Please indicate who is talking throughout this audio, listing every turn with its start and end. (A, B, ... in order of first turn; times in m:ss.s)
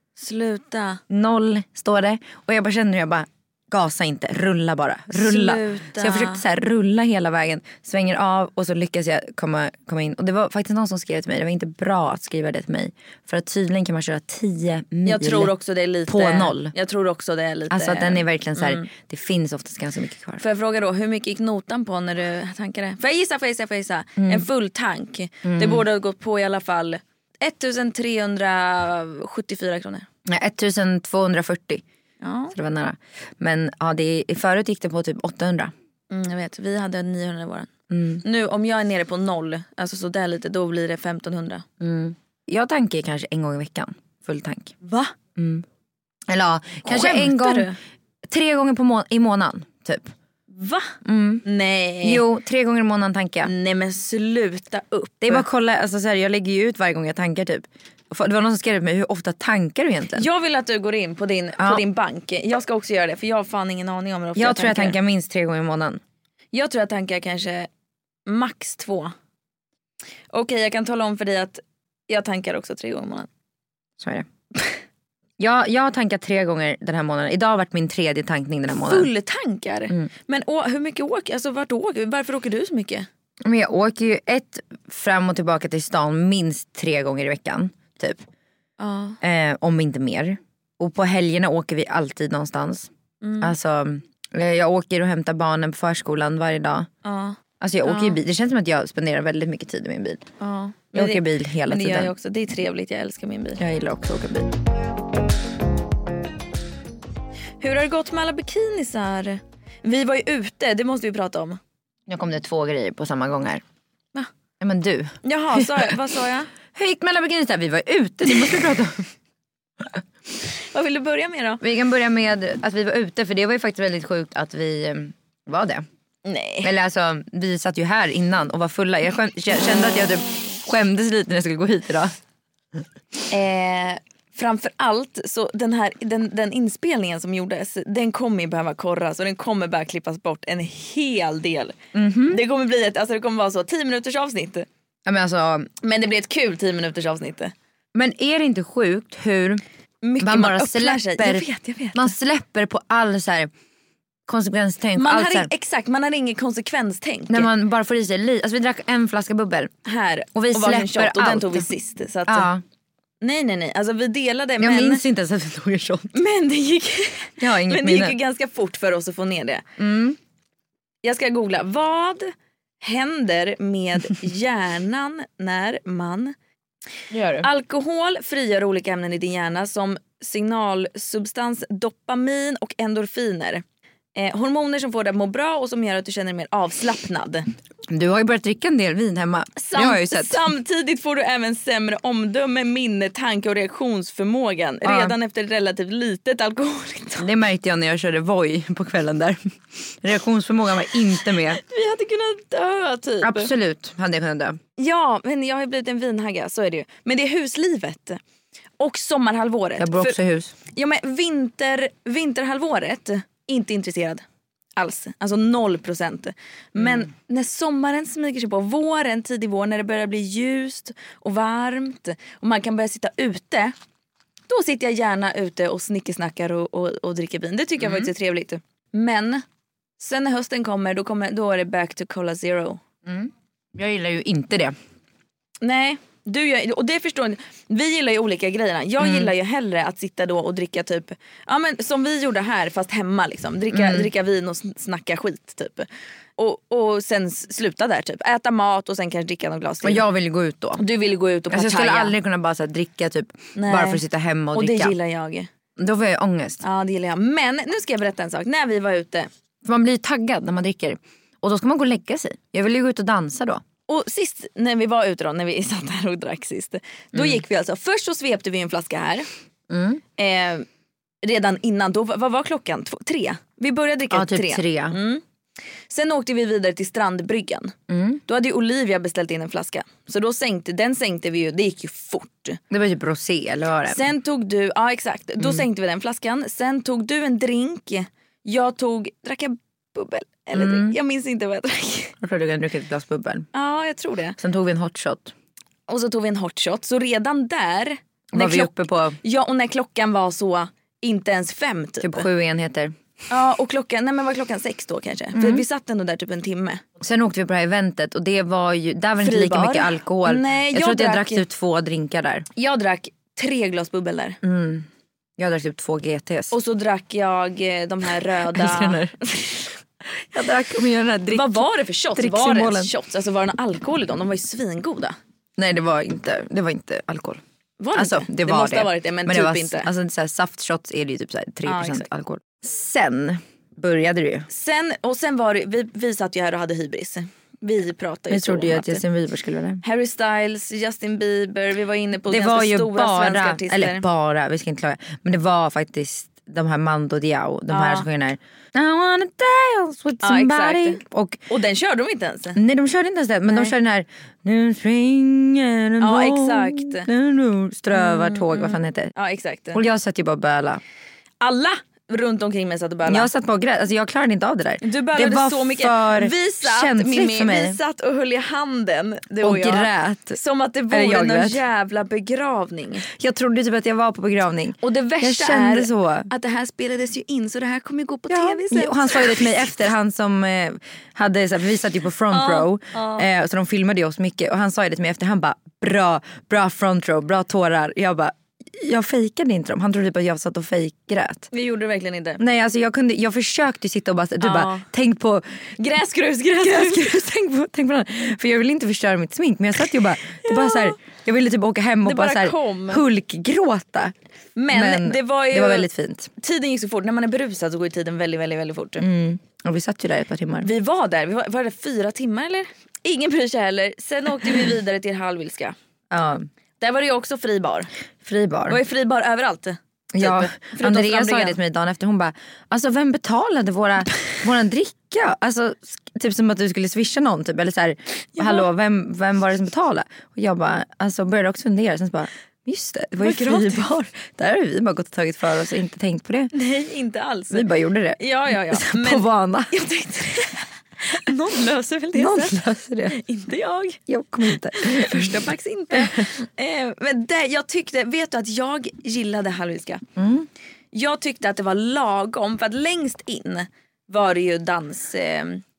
0:00.2-0:01.0 A
0:01.1-0:15.5 B
0:05.1-0:06.4 A
0:15.0-0:18.9 A
0:16.1-0:16.7 B
0:17.7-0:20.4 B
0:20.4-0:30.1 A
0:24.2-0:24.5 B
0:25.4-0:25.8 B
0:30.2-0:31.8 B
0:32.2-0:32.5 A
0:32.5-0:35.7 B
0:36.1-0:37.7 A
0:37.9-0:38.2 B
0:38.2-0:41.6 A
0:41.8-0:44.7 B
0:44.8-0:45.1 A
0:45.4-0:45.6 B
0:46.3-0:47.7 B
0:46.8-0:47.8 A
0:48.2-0:50.1 B
0:50.5-0:52.2 A
0:51.0-0:51.4 B
0:52.0-0:53.5 B
0:53.4-0:55.4 A
0:55.2-1:00.3 B
1:00.1-1:05.0 A
1:01.6-1:01.8 B
1:04.4-1:06.0 B
1:06.5-1:07.7 A
1:08.2-1:09.1 A
1:10.3-1:13.3 A
1:14.0-1:14.3 B
1:15.4-1:19.1 B
1:18.8-1:23.1 A
1:23.4-1:28.2 B
1:28.8-1:29.2 A
1:29.2-1:36.9 B
1:33.2-1:33.5 A
1:37.0-1:38.2 A
1:37.6-1:40.2 B
1:40.4-1:43.6 A
1:40.9-1:42.1 B
1:43.6-1:44.6 B
1:47.6-1:51.6 A
1:52.1-1:53.6 B
1:54.6-1:55.9 B
1:55.2-1:56.5 A
1:56.7-1:59.1 B
2:00.7-2:01.6 A
2:01.6-2:05.8 B
2:06.2-2:06.7 A
2:06.6-2:12.1 B
2:13.3-2:21.8 A
2:21.9-2:22.4 B
2:22.3-2:24.7 A
2:25.0-2:25.7 B
2:25.8-2:27.5 A
2:27.9-2:29.6 B
2:30.0-2:32.1 A
2:30.2-2:33.5 B
2:34.3-2:35.5 B
2:35.0-2:37.5 A
2:37.3-2:39.7 B
2:39.8-2:42.5 A
2:40.3-2:41.7 B
2:42.3-2:42.6 B
2:43.2-2:45.0 A
2:44.6-2:46.2 B
2:46.1-2:49.6 A
2:47.4-2:48.2 B
2:49.8-2:50.2 B
2:51.0-2:56.3 A
2:57.1-2:57.5 B
2:57.4-3:03.6 A
3:04.1-3:07.5 A
3:07.9-3:10.4 B
3:09.6-3:17.3 A
3:14.8-3:15.1 B
3:17.2-3:21.6 B
3:21.6-3:23.5 A
3:23.2-3:24.6 B
3:24.8-3:28.2 A
3:28.8-3:30.2 A
3:29.8-3:30.5 B
3:30.7-3:34.2 A
3:34.8-3:43.7 A
3:44.5-3:49.4 A
3:47.8-3:48.1 B
3:50.0-3:52.8 A
3:53.0-3:54.7 B
3:55.6-4:10.0 A
3:59.0-3:59.3 B
4:03.7-4:04.1 B
4:09.8-4:10.8 B
4:10.8-4:12.1 A
4:11.5-4:15.0 B
4:13.5-4:15.5 A
4:15.8-4:16.6 B
4:16.6-4:19.3 A
4:19.6-4:23.6 B
4:23.9-4:29.3 A
4:27.1-4:27.4 B
4:29.7-4:30.0 B
4:30.2-4:30.6 A
4:31.2-4:35.2 A
4:34.1-4:35.0 B
4:35.9-4:37.7 A
4:37.9-4:38.2 B
4:38.2-4:42.6 A
4:42.7-4:44.1 B
4:43.9-4:52.1 A
4:45.4-4:45.6 B
4:50.5-4:51.0 B
4:52.2-4:53.5 B
4:53.5-4:54.4 A
4:54.4-4:55.3 B
4:55.9-5:02.3 A
4:58.3-4:59.2 B
5:02.0-5:02.9 B
5:03.3-5:06.8 A
5:05.3-5:05.6 B
5:07.0-5:12.4 B
5:09.2-5:11.4 A
5:12.6-5:14.4 A
5:14.4-5:16.5 B
5:16.5-5:19.7 A
5:18.5-5:19.1 B
5:20.2-5:22.9 B
5:21.3-5:25.2 A
5:25.6-5:27.4 B
5:27.8-5:29.9 A
5:27.9-5:34.5 B
5:31.6-5:32.1 A
5:34.5-5:39.0 A
5:38.3-5:39.8 B
5:39.8-5:44.0 A
5:42.2-5:51.4 B
5:47.7-5:48.0 A
5:50.2-5:52.6 A
5:52.5-5:59.1 B
5:53.5-5:53.7 A
5:56.0-5:57.1 A
5:57.9-5:59.8 A
5:59.7-6:00.8 B
6:01.4-6:03.3 A
6:03.0-6:07.8 B
6:04.8-6:13.0 A
6:09.4-6:10.4 B
6:10.9-6:11.6 B
6:13.0-6:16.3 B
6:14.8-6:19.7 A
6:18.3-6:31.5 B
6:22.3-6:23.2 A
6:31.5-6:32.4 A
6:32.4-6:35.7 B
6:34.4-6:34.9 A
6:35.8-6:37.1 A
6:36.6-6:44.1 B
6:40.4-6:40.9 A
6:42.0-6:43.0 A
6:44.6-6:49.0 A
6:44.7-6:46.3 B
6:49.0-6:50.7 B
6:50.6-6:55.8 A
6:56.1-6:56.5 B
6:56.8-6:57.9 A
6:58.2-6:58.8 B
6:58.7-7:01.6 A
7:00.1-7:16.5 B
7:08.3-7:08.7 A
7:13.2-7:13.9 A
7:16.5-7:17.6 A
7:17.5-7:19.7 B
7:18.2-7:22.6 A
7:22.1-7:23.2 B
7:23.1-7:30.0 A
7:24.1-7:26.2 B
7:30.2-7:30.5 B
7:30.9-7:35.6 A